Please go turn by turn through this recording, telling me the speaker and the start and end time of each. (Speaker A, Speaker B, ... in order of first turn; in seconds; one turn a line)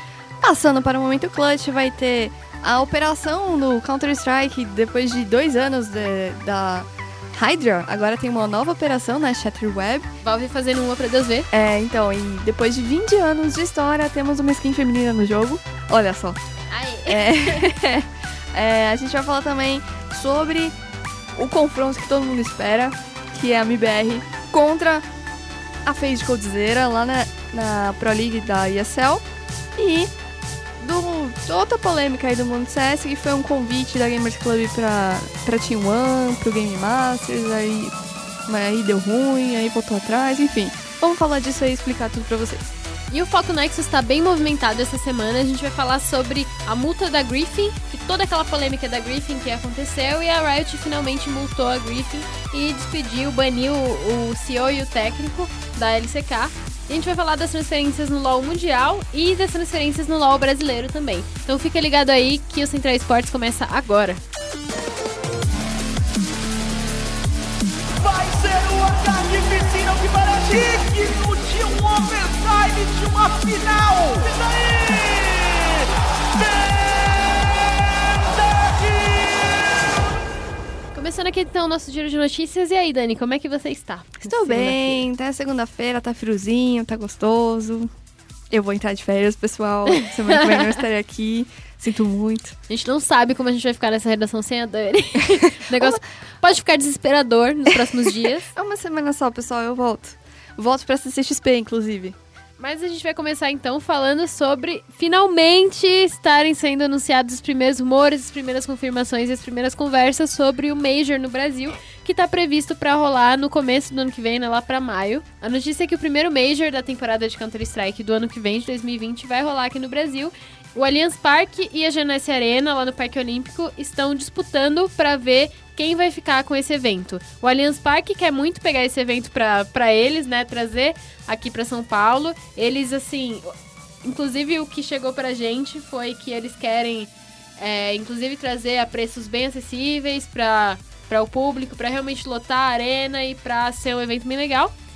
Speaker A: 0.4-10.1
Speaker B: 10.2-11.5
Speaker A: 11.5-16.4
Speaker B: 16.7-17.7
Speaker A: 17.1-20.8
Speaker A: 21.3-25.1
Speaker A: 25.8-29.2
Speaker A: 29.8-30.1
Speaker A: 30.8-37.9
Speaker A: 38.5-42.7
Speaker B: 43.1-64.2
Speaker C: 68.0-80.2
Speaker B: 80.9-85.0
Speaker A: 84.2-87.9
Speaker A: 88.5-92.6
Speaker B: 89.9-90.8
Speaker B: 92.7-98.5
Speaker A: 95.7-96.0
Speaker A: 97.8-102.2
Speaker B: 102.6-133.5
Speaker B: 134.0-144.7